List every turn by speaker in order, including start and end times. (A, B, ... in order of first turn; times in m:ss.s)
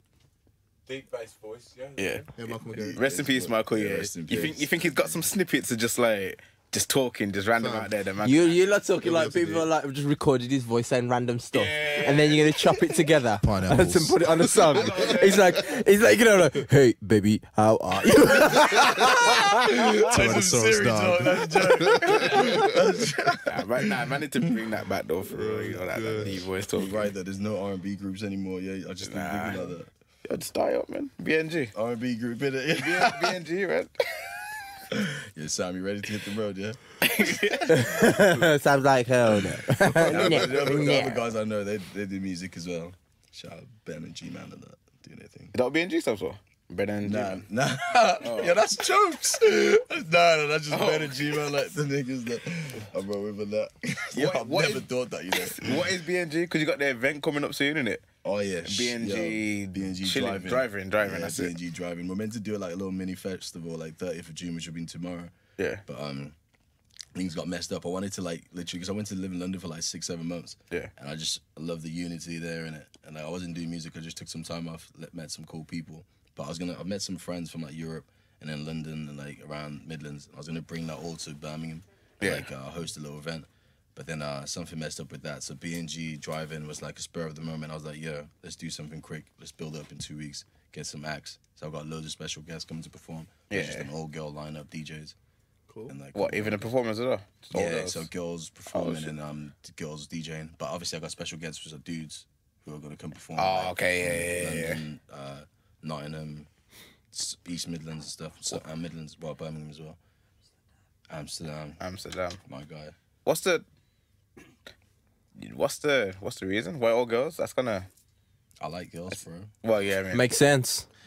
0:00.8-0:02.3 A
0:02.0-0:02.2 B
0:02.4-0:03.0 C
0:02.7-0:05.2 D
0:02.8-0:08.8 B
0:07.6-0:07.9 C
0:08.2-0:21.4 E
0:09.0-0:09.7 C
0:11.5-0:12.5 A
0:13.4-0:14.2 C
0:14.6-0:15.6 A
0:18.5-0:24.1 D
0:20.2-0:22.5 C
0:23.4-0:27.1 B
0:25.3-0:26.4 C
0:26.7-0:29.9 D
0:29.0-0:29.7 B
0:30.2-0:31.7 B
0:31.7-0:33.4 D
0:32.8-0:34.3 B
0:34.9-0:38.1 D
0:37.0-0:38.0 B
0:37.7-0:41.2 E
0:39.9-0:45.5 D
0:40.1-0:41.0 B
0:45.5-0:47.4 B
0:47.0-0:55.9 D
0:48.2-0:48.6 B
0:50.7-0:51.4 B
0:54.1-0:58.1 B
0:58.2-1:05.3 D
0:58.6-1:01.6 B
1:05.6-1:05.8 B
1:05.8-1:06.3 D
1:07.1-1:35.1 D
1:22.2-1:22.5 B
1:33.5-1:33.9 B
1:35.7-1:35.9 C
1:35.9-1:36.7 D
1:36.1-1:38.1 B
1:37.5-1:46.5 D
1:38.7-1:39.1 B
1:43.4-1:44.8 B
1:47.1-1:50.0 D
1:51.1-1:51.8 D
1:51.8-1:52.4 B
1:52.4-1:52.9 D
1:53.2-1:53.6 B
1:55.4-1:57.9 B
1:58.6-1:59.5 D
1:59.1-2:00.3 B
2:00.1-2:00.9 E